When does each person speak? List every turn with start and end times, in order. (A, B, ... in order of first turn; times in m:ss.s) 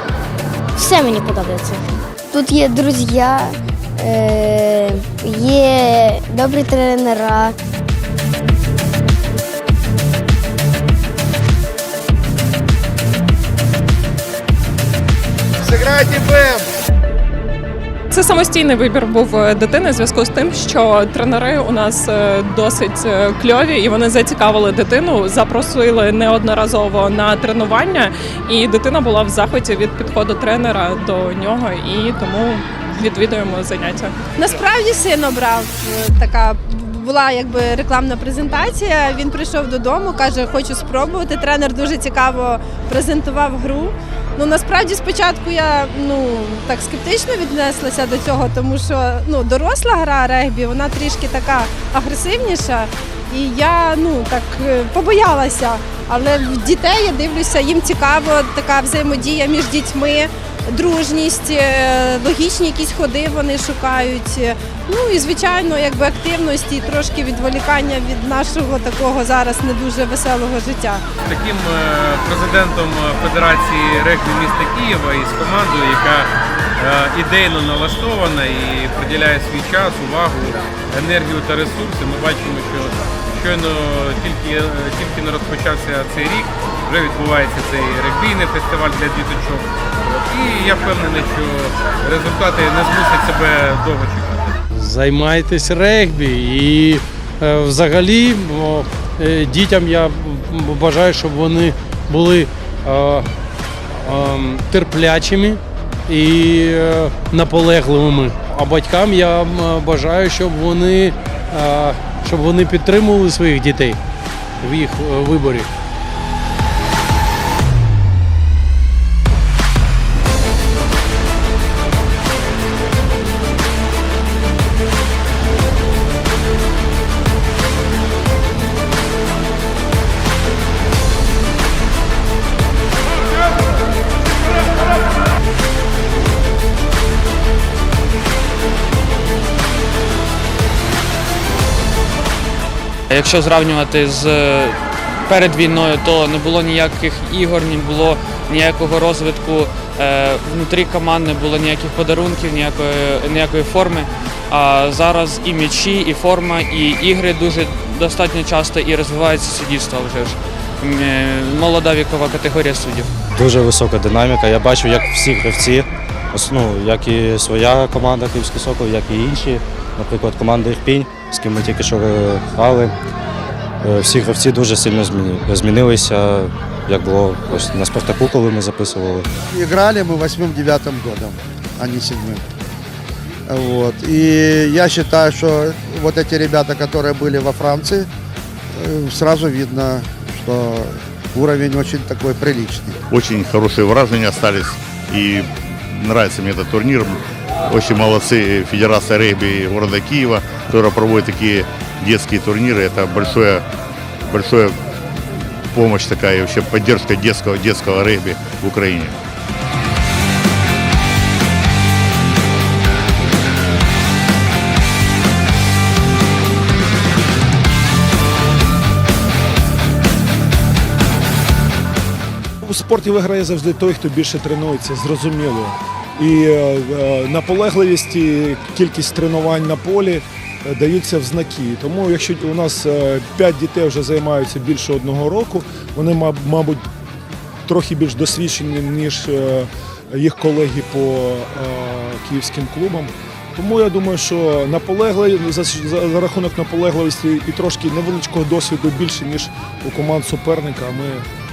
0:00.8-0:07.6 A
0:18.1-0:34.1 B
0:34.4-1:11.0 C
1:11.2-1:34.6 D
1:34.7-1:43.3 E
1:43.9-1:54.0 E
1:54.6-1:55.7 E
2:23.1-2:43.1 F
2:43.4-2:45.8 G
2:46.3-2:52.9 G
2:53.9-2:59.2 G
2:59.6-3:02.4 H
3:03.5-3:08.1 H
3:08.8-3:13.0 H
3:13.1-3:23.6 I
3:24.3-3:24.8 I
3:25.7-3:29.2 I
3:42.6-3:56.8 J
3:57.6-4:11.2 J